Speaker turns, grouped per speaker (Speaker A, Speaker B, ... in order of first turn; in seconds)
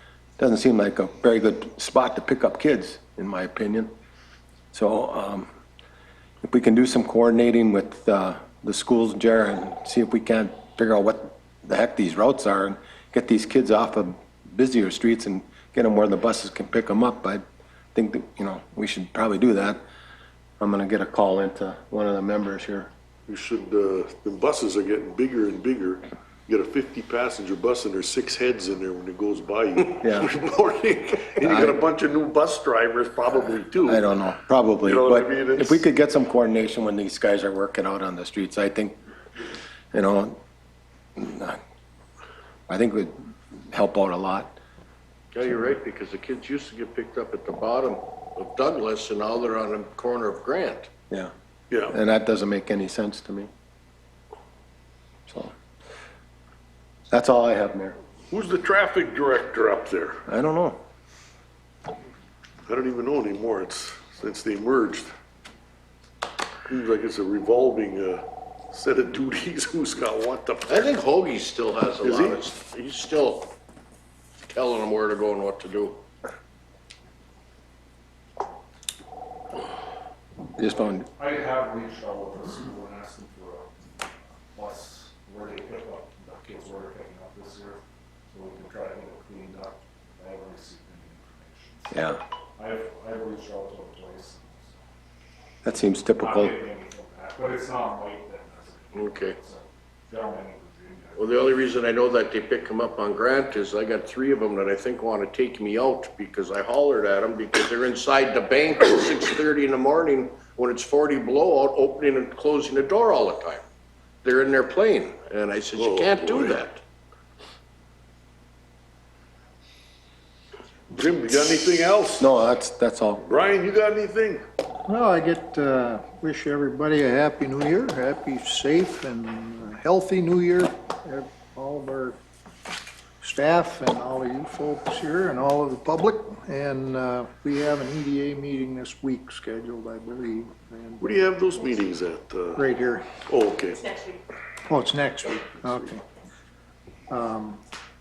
Speaker A: 0.4-3.9, 4.7-5.5, 6.4-17.4, 17.9-19.8, 20.6-22.9, 30.0-30.3, 31.4-31.8, 33.8-39.0, 39.9-40.4, 41.2-41.6, 42.7-43.1, 43.7-44.5, 51.9-53.5, 55.3-55.5, 57.1-58.0, 60.3-60.8, 80.6-81.1, 91.9-92.2, 95.6-96.6, 122.2-123.2
Speaker B: 23.3-34.0, 34.8-35.8, 58.3-60.2, 62.7-65.1, 66.7-70.9, 72.0-72.4, 115.7-116.6, 120.9-122.3, 123.2-124.4, 141.0-142.7, 143.3-143.8
Speaker C: 45.3-50.9, 70.7-73.5, 74.5-76.0, 98.9-99.4, 101.2-113.6, 114.2-116.8
Speaker D: 81.2-83.7, 84.5-87.8, 88.3-92.0, 92.6-94.8, 96.2-101.5
Speaker E: 124.9-132.2, 133.2-141.0, 142.6-143.1, 144.7-146.0, 147.1-147.6